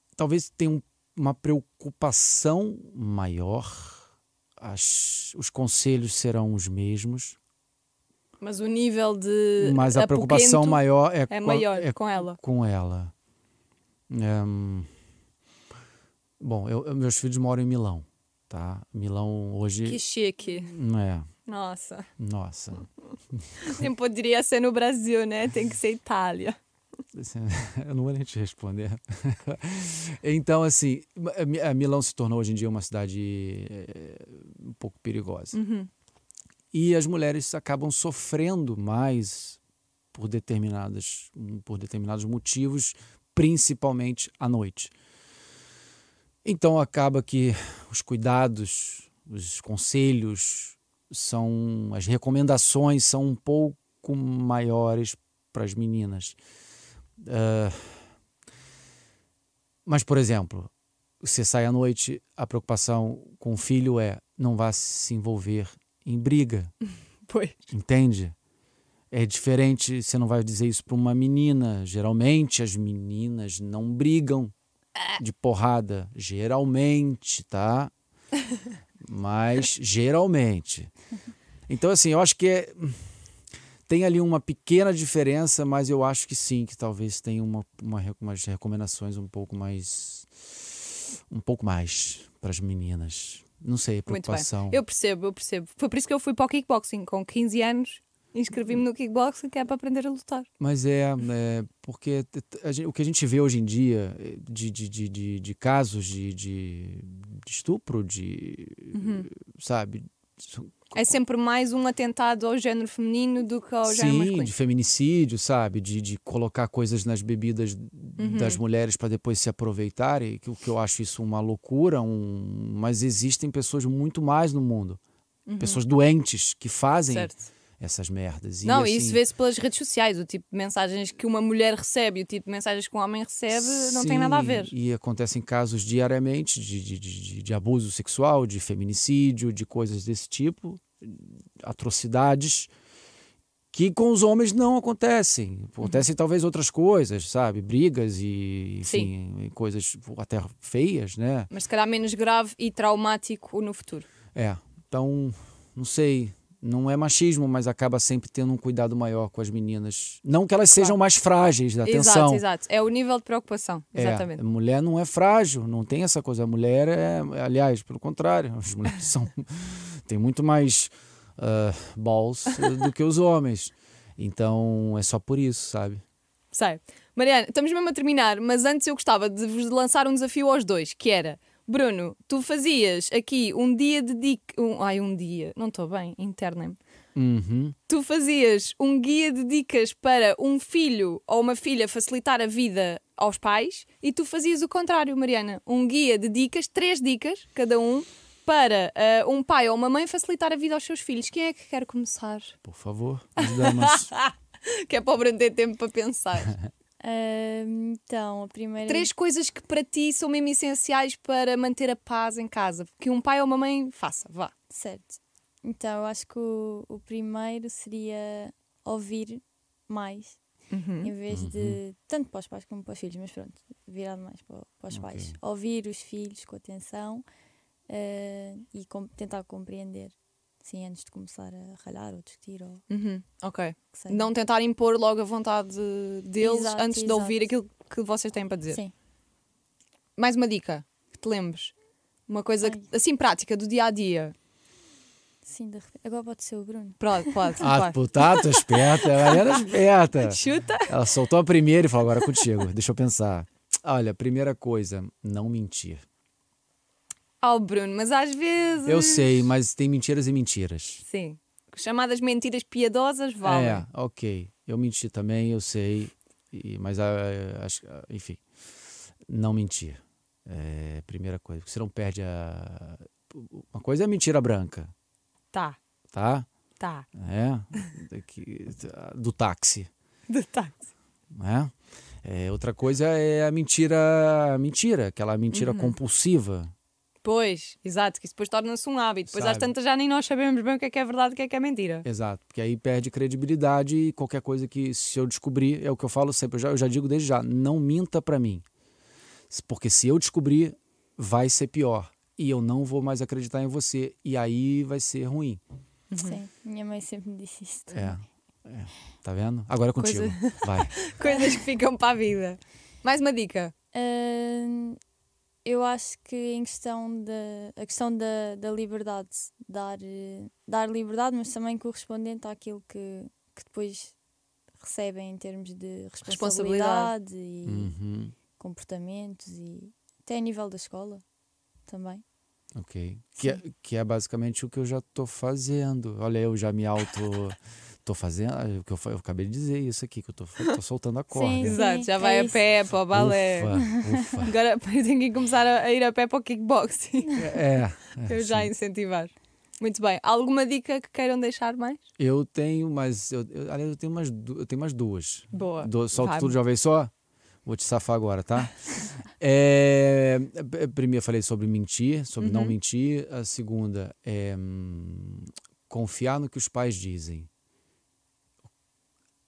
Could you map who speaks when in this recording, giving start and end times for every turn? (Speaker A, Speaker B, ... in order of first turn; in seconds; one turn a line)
Speaker A: 0.1-4.0
Speaker A: 4.6-7.4
Speaker B: 8.4-12.4
Speaker A: 9.6-13.1
Speaker A: 14.1-14.9
Speaker A: 16.4-20.0
Speaker B: 19.8-20.7
Speaker A: 20.5-21.3
Speaker B: 21.5-22.1
Speaker A: 22.2-23.8
Speaker B: 23.6-26.6
Speaker A: 27.1-35.6
Speaker B: 35.5-35.9
Speaker A: 36.7-39.6
Speaker A: 40.1-44.9
Speaker A: 46.4-56.4
Speaker A: 57.2-58.0
Speaker A: 59.9-66.7
Speaker B: 67.3-67.6
Speaker A: 67.7-68.3
Speaker A: 69.1-74.5
Speaker A: 75.2-77.9
Speaker A: 79.0-80.9
Speaker A: 81.7-83.0
Speaker A: 83.9-94.8
Speaker B: 94.1-100.5
Speaker A: 100.6-111.0
Speaker B: 108.9-109.3
Speaker B: 110.9-114.5
Speaker A: 113.8-125.0
Speaker B: 118.2-118.6
Speaker B: 125.5-125.8
Speaker A: 125.6-129.2
Speaker B: 127.1-127.4
Speaker B: 128.6-134.7
Speaker A: 133.5-142.7
Speaker A: 143.7-151.5
Speaker B: 148.8-149.1
Speaker B: 151.5-154.1
Speaker A: 154.3-162.4
Speaker B: 161.8-164.4
Speaker A: 163.9-176.0
Speaker B: 176.5-186.8
Speaker A: 187.1-187.8
Speaker B: 187.9-202.6
Speaker A: 202.6-204.1
Speaker B: 203.4-206.5
Speaker C: 207.0-209.1
Speaker B: 208.9-214.5
Speaker C: 214.7-220.4
Speaker B: 220.7-221.1
Speaker C: 221.0-227.2
Speaker A: 221.3-221.8
Speaker A: 224.9-225.3
Speaker C: 227.9-232.8
Speaker B: 232.9-238.8
Speaker C: 233.9-234.3
Speaker C: 236.4-237.5
Speaker B: 240.2-241.7
Speaker B: 242.3-244.3
Speaker C: 245.4-247.6
Speaker B: 247.0-249.6
Speaker A: 247.6-256.0
Speaker B: 250.2-250.9
Speaker B: 257.4-259.4
Speaker A: 258.8-261.0
Speaker B: 261.0-263.8
Speaker A: 263.4-268.4
Speaker A: 269.3-274.9
Speaker B: 275.5-275.8
Speaker A: 276.1-276.5
Speaker B: 276.8-277.1
Speaker A: 277.1-279.9
Speaker B: 280.3-280.9
Speaker A: 281.3-286.7
Speaker B: 285.5-285.9
Speaker B: 287.2-292.0
Speaker A: 289.3-289.7
Speaker A: 292.0-298.6
Speaker A: 299.5-305.6
Speaker B: 306.1-306.4
Speaker C: 306.2-308.2
Speaker A: 307.9-310.9
Speaker B: 310.0-313.7
Speaker C: 311.2-311.6
Speaker C: 313.9-315.0
Speaker C: 315.6-324.1
Speaker C: 324.8-327.9
Speaker B: 326.2-327.1
Speaker A: 327.6-328.3
Speaker C: 328.6-331.2
Speaker C: 331.9-332.2
Speaker A: 332.7-341.8
Speaker C: 341.3-342.6
Speaker B: 341.6-343.8
Speaker A: 343.1-344.5
Speaker C: 343.7-344.3
Speaker B: 344.4-347.5
Speaker A: 347.4-348.7
Speaker B: 348.3-352.0
Speaker A: 352.2-357.1
Speaker B: 355.5-356.6
Speaker A: 357.6-358.8
Speaker A: 359.4-367.5
Speaker B: 362.4-362.8